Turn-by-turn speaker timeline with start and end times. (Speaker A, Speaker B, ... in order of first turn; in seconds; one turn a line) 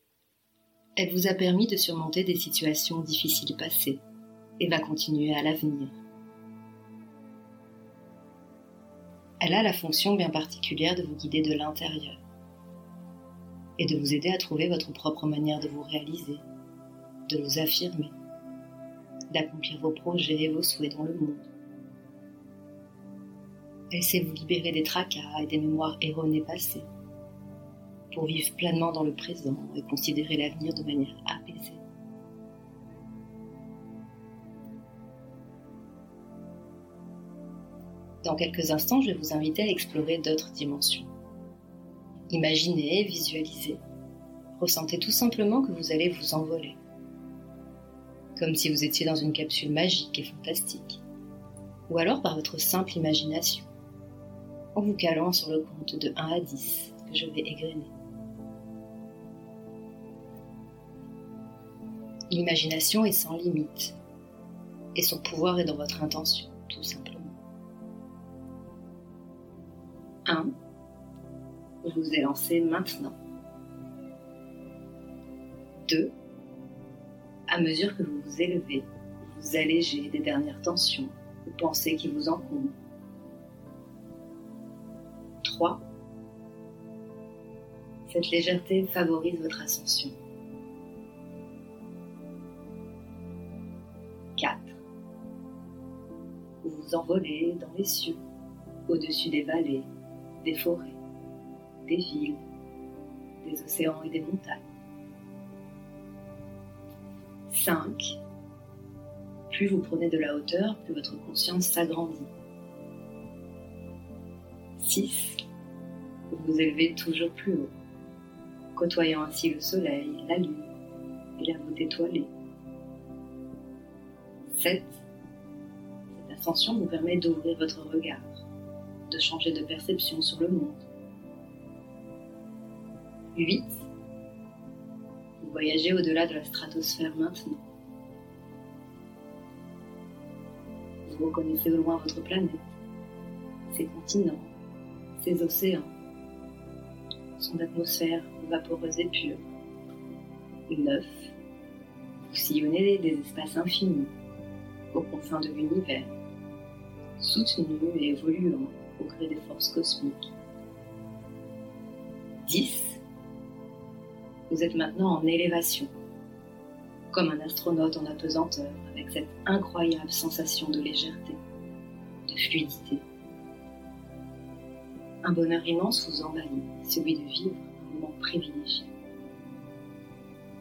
Speaker A: 1.0-4.0
Speaker A: 4.6-6.0
Speaker A: 9.4-12.2
Speaker A: 13.8-16.4
Speaker A: 17.3-18.1
Speaker A: 19.3-21.5
Speaker A: 23.9-26.9
Speaker A: 28.1-31.8
Speaker A: 38.2-41.1
Speaker A: 42.3-43.8
Speaker A: 44.6-46.8
Speaker A: 48.4-51.0
Speaker A: 51.9-53.7
Speaker A: 54.7-57.9
Speaker A: 62.3-64.0
Speaker A: 64.9-67.4
Speaker A: 70.2-70.5
Speaker A: 71.8-73.1
Speaker A: 75.8-76.1
Speaker A: 77.5-82.7
Speaker A: 85.4-85.8
Speaker A: 88.1-90.1
Speaker A: 94.4-94.8
Speaker A: 96.6-98.2
Speaker A: 98.9-99.9
Speaker A: 100.4-101.0
Speaker A: 101.8-102.4
Speaker A: 103.4-104.7
Speaker A: 107.5-108.2
Speaker A: 109.5-112.3
Speaker A: 114.8-115.4
Speaker A: 116.3-117.7
Speaker A: 118.8-120.7
Speaker A: 121.4-122.3
Speaker A: 124.5-125.0
Speaker A: 126.1-128.5
Speaker A: 129.1-130.8
Speaker A: 133.3-133.8
Speaker A: 135.4-137.6
Speaker A: 141.1-142.6
Speaker A: 143.7-144.5
Speaker A: 145.2-145.9
Speaker A: 147.4-149.4
Speaker A: 150.7-151.3
Speaker A: 152.3-154.1
Speaker A: 154.9-156.1
Speaker A: 157.2-160.3
Speaker A: 162.4-163.0
Speaker A: 164.5-165.9
Speaker A: 167.1-171.4
Speaker A: 172.2-173.0
Speaker A: 175.2-178.9